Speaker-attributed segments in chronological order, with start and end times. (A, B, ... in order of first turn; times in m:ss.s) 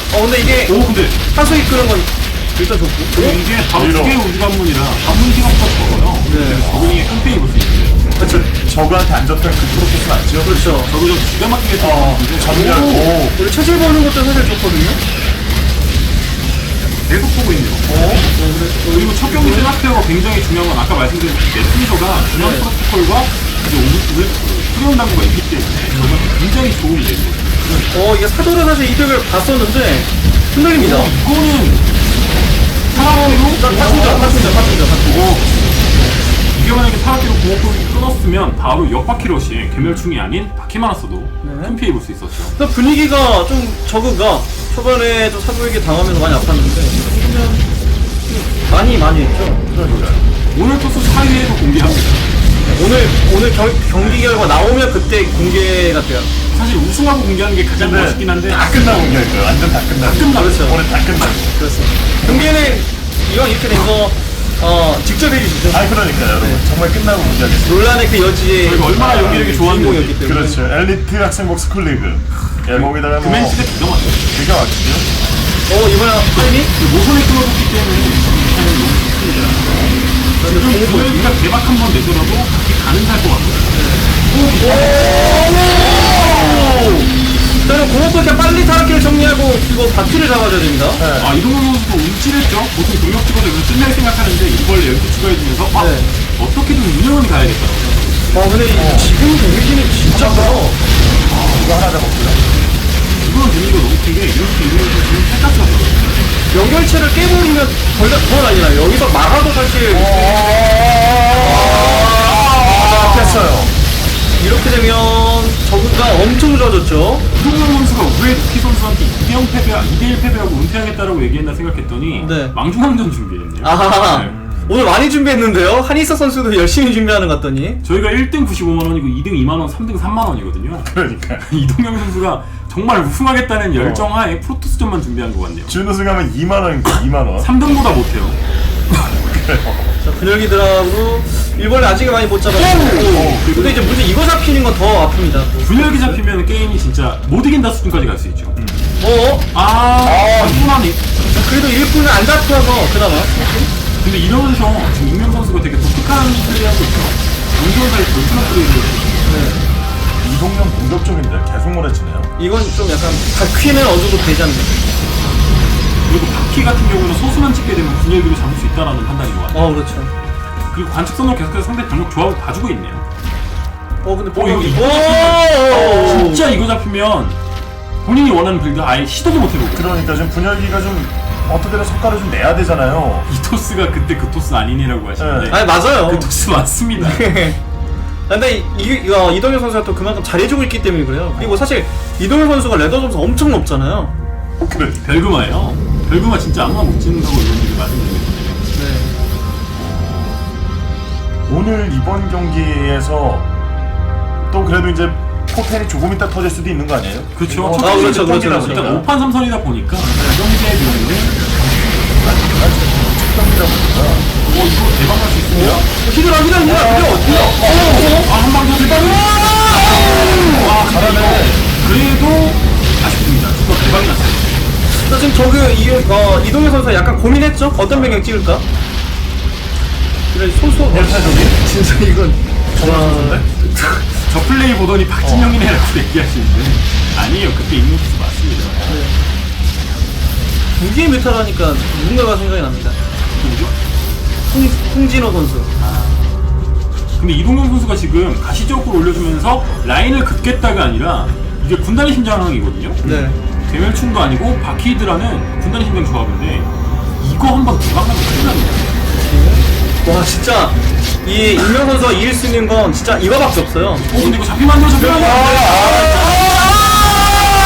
0:00.1-0:03.4 A
0:00.5-0:01.2 B
0:03.1-0:08.0 B
0:03.7-0:04.2 C
0:06.2-0:06.7 A
0:06.4-0:07.0 C
0:08.2-0:10.8 C
0:10.4-0:10.9 A
0:10.7-0:13.1 B
0:11.8-0:13.4 C
0:13.0-0:15.0 A
0:17.0-0:17.9 B
0:17.9-0:19.7 A
0:18.9-0:27.9 B
0:22.3-0:22.7 A
0:27.9-0:31.1 A
0:30.7-0:31.9 B
0:32.9-0:35.6 B
0:32.9-0:35.3 A
0:35.9-0:36.2 A
0:36.5-0:42.5 B
0:39.7-0:40.0 C
0:41.4-0:41.8 A
0:42.5-0:47.6 A
0:48.2-0:49.6 A
0:49.7-0:50.2 C
0:50.5-0:52.3 B
0:52.6-0:56.3 A
0:56.5-0:58.7 B
0:57.7-1:01.6 C
1:00.0-1:00.7 B
1:00.3-1:00.8 A
1:01.6-1:06.6 A
1:02.2-1:02.7 C
1:05.7-1:07.9 C
1:07.6-1:10.6 A
1:08.6-1:10.2 B
1:08.9-1:09.5 C
1:10.2-1:13.6 C
1:12.6-1:14.3 B
1:14.3-1:15.2 C
1:15.7-1:16.7 A
1:16.4-1:26.8 B
1:20.4-1:21.4 A
1:23.7-1:27.1 A
1:27.6-1:31.0 A
1:31.0-1:31.3 C
1:31.2-1:38.5 B
1:35.7-1:36.1 A
1:38.3-1:40.8 A
1:38.7-1:39.1 C
1:40.1-1:40.7 C
1:41.3-1:41.8 B
1:41.4-1:42.4 C
1:43.2-1:46.2 B
1:46.5-1:53.4 A
1:49.9-1:53.7 C
1:54.4-1:57.2 A
1:57.3-2:04.3 B
2:02.2-2:02.5 A
2:03.6-2:07.8 A
2:04.1-2:04.7 C
2:07.8-2:15.7 B
2:10.8-2:11.4 C
2:13.8-2:14.1 C
2:15.7-2:17.5 C
2:17.4-2:18.4 B
2:19.2-2:19.9 C
2:20.0-2:26.2 A
2:22.6-2:24.0 B
2:23.0-2:23.6 C
2:25.6-2:28.6 B
2:28.6-2:28.9 C
2:29.0-2:29.5 A
2:29.5-2:31.0 B
2:30.0-2:30.7 A
2:31.3-2:33.7 A
2:34.0-2:39.6 B
2:39.2-2:39.6 A
2:40.2-2:42.3 C
2:42.4-2:44.8 A
2:46.0-2:49.6 B
2:49.5-2:50.1 A
2:50.7-2:53.0 B
2:54.0-2:56.5 A
2:54.3-2:57.4 B
2:58.0-2:59.9 B
2:59.7-3:03.3 C
3:03.3-3:07.3 B
3:05.2-3:05.6 C
3:05.5-3:06.3 A
3:06.9-3:07.6 A
3:08.3-3:14.1 A
3:11.4-3:11.6 C
3:14.7-3:15.0 C
3:15.0-3:18.6 B
3:18.7-3:19.2 A
3:19.7-3:20.4 C
3:21.5-3:23.5 C
3:24.5-3:29.0 C
3:27.3-3:32.2 B
3:27.7-3:29.0 A
3:32.2-3:34.3 C
3:34.4-3:35.9 B
3:35.5-3:38.3 A
3:36.6-3:38.2 C
3:37.5-3:44.7 B
3:38.9-3:41.5 A
3:39.8-3:41.6 C
3:44.9-3:48.6 A
3:47.9-3:48.2 C
3:50.3-3:54.0 A
3:50.9-3:51.6 C
3:52.7-3:53.5 C
3:54.2-3:58.9 B
3:55.2-3:55.5 C
3:58.9-3:59.2 A
4:00.8-4:03.0 A
4:03.3-4:03.7 B
4:04.5-4:05.7 A
4:05.8-4:06.2 B
4:07.2-4:13.1 B
4:13.0-4:13.4 A
4:13.6-4:19.0 B
4:19.1-4:24.4 A
4:24.1-4:27.0 B
4:25.0-4:26.4 C